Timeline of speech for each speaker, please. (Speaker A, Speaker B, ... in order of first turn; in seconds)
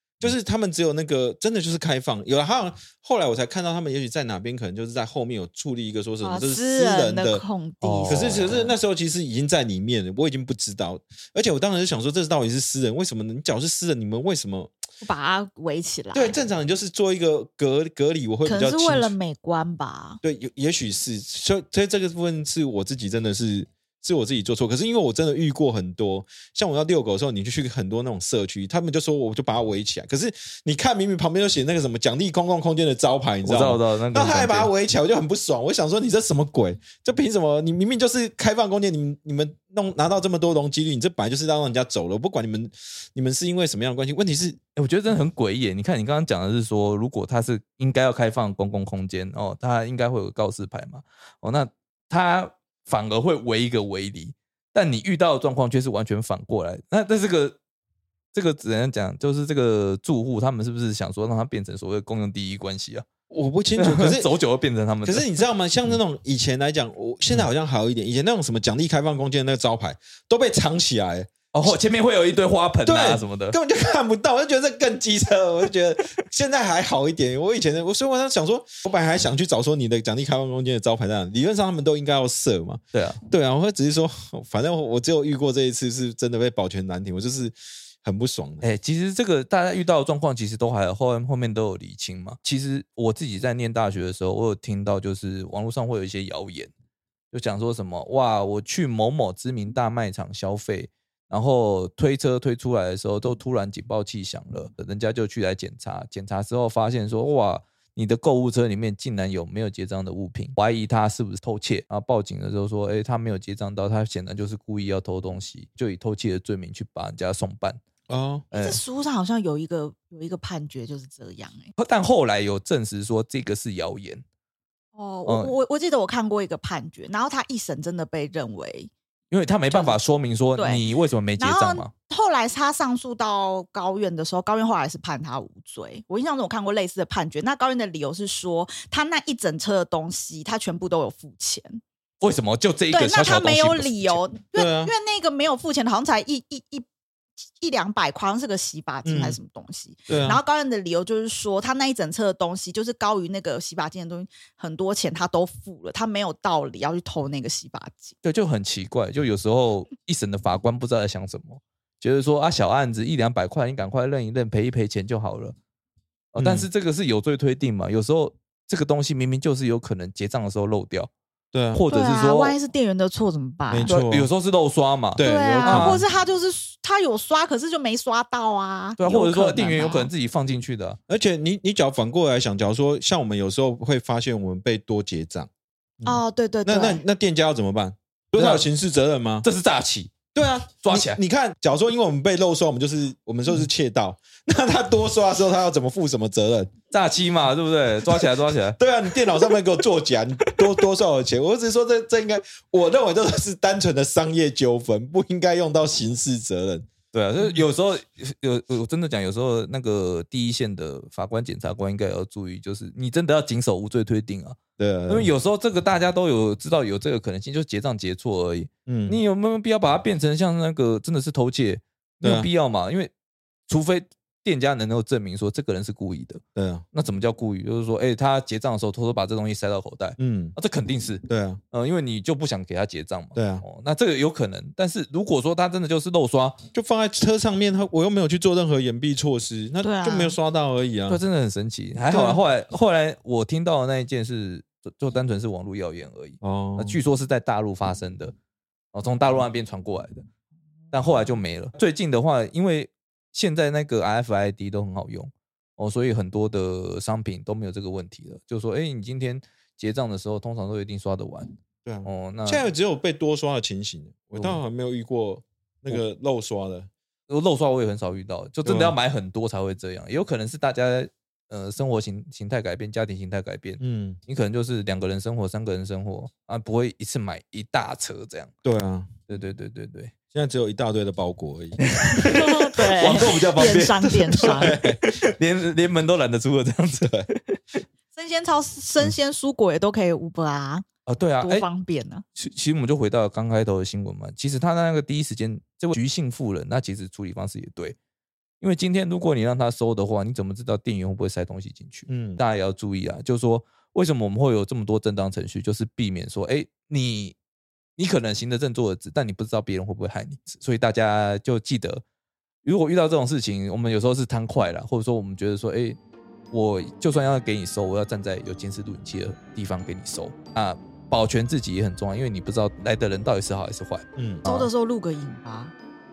Speaker A: 0.2-7.4, 8.1-14.7, 16.1-19.2, 20.2-44.6, 63.3-64.3, 65.0-71.7, 72.8-88.7, 118.1-118.5, 144.6-144.9, 149.1-149.4, 150.1-150.4, 166.4-166.7, 171.5-171.8, 173.7-174.3, 175.2-176.0, 181.1-185.5, 186.0-189.5, 190.3-196.7, 198.1-206.9, 214.8-215.3, 218.9-219.2, 222.2-222.5, 226.6-226.8, 230.2-230.6, 231.3-231.6, 233.3-233.7, 236.7-241.2, 242.1-242.4, 246.4-247.0, 261.9-266.9, 268.6-269.0, 273.8-274.2, 278.6-279.2, 280.3-281.8, 284.0-285.0, 302.1-302.4, 324.2-324.4
Speaker B: 6.2-8.8, 15.0-16.4, 18.4-20.2, 118.5-121.7, 125.0-128.9, 129.7-130.8, 131.4-141.8, 142.9-146.9, 147.6-158.1, 171.9-173.9, 175.2-180.1, 186.1-187.0, 239.8-240.4, 282.2-284.8, 288.1-290.9, 291.4-292.2, 324.4-325.7
Speaker C: 7.8-8.6, 33.4-34.7, 44.8-57.6, 58.3-63.1, 63.8-65.3, 71.5-73.6, 82.9-83.2, 88.6-96.7, 97.3-117.8, 118.5-118.8, 121.8-124.2, 125.2-125.5, 129.3-131.9, 142.2-144.2, 150.1-150.4, 158.2-165.6, 166.3-171.1, 171.7-172.6, 173.9-176.0, 179.0-181.0, 188.3-188.7, 189.4-190.1, 190.8-191.2, 196.9-199.6, 207.1-214.6, 215.1-223.1, 223.7-226.4, 226.9-236.6, 241.1-248.3, 248.9-250.2, 250.9-261.5, 262.1-262.7, 267.3-278.5, 279.3-280.1, 281.8-287.8, 291.1-291.7, 292.4-298.0, 298.6-307.4, 308.0-312.0, 312.6-316.0, 316.5-324.7